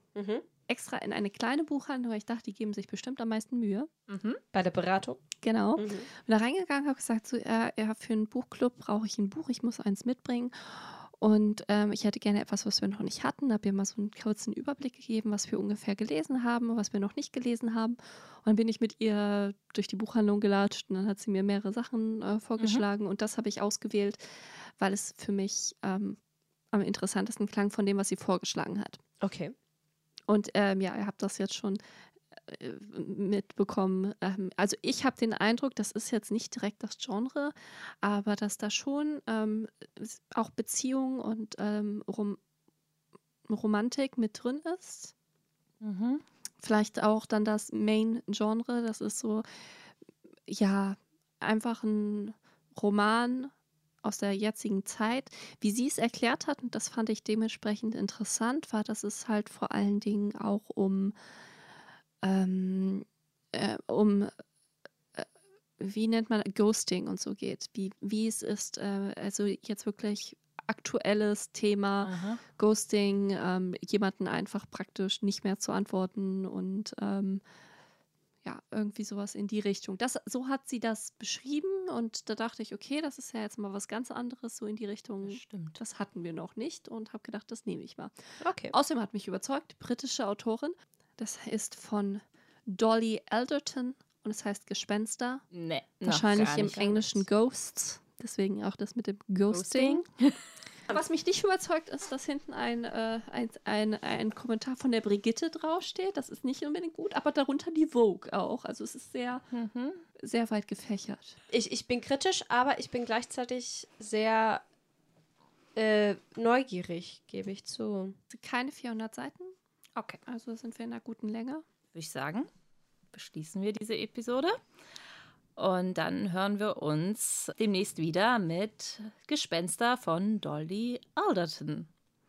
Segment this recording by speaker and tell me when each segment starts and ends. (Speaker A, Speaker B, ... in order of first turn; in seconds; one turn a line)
Speaker A: 0.1-0.5
Speaker B: 0.7-4.0
Speaker C: 4.1-4.4
Speaker A: 4.5-5.2
Speaker B: 5.4-24.2
Speaker A: 5.8-6.1
Speaker B: 24.8-26.2
Speaker B: 26.7-29.0
Speaker A: 29.2-29.5
Speaker B: 30.3-31.8
Speaker B: 32.5-42.4
Speaker B: 43.5-45.1
Speaker C: 45.8-46.2
Speaker B: 46.6-49.4
Speaker B: 50.5-53.5
Speaker B: 54.0-61.1
Speaker B: 62.2-64.3
Speaker B: 65.8-77.4
Speaker C: 72.0-72.4
Speaker B: 78.4-95.4
Speaker C: 85.2-85.8
Speaker A: 88.4-88.7
Speaker C: 95.5-97.2
Speaker B: 96.0-100.0
Speaker C: 99.5-100.5
Speaker B: 100.9-109.5
Speaker C: 109.5-110.0
Speaker B: 110.2-111.4
Speaker A: 111.5-114.6
Speaker A: 115.8-118.2
Speaker B: 118.3-119.5
Speaker B: 120.3-121.6
Speaker C: 121.9-122.5
Speaker C: 123.1-124.6
Speaker C: 125.5-131.9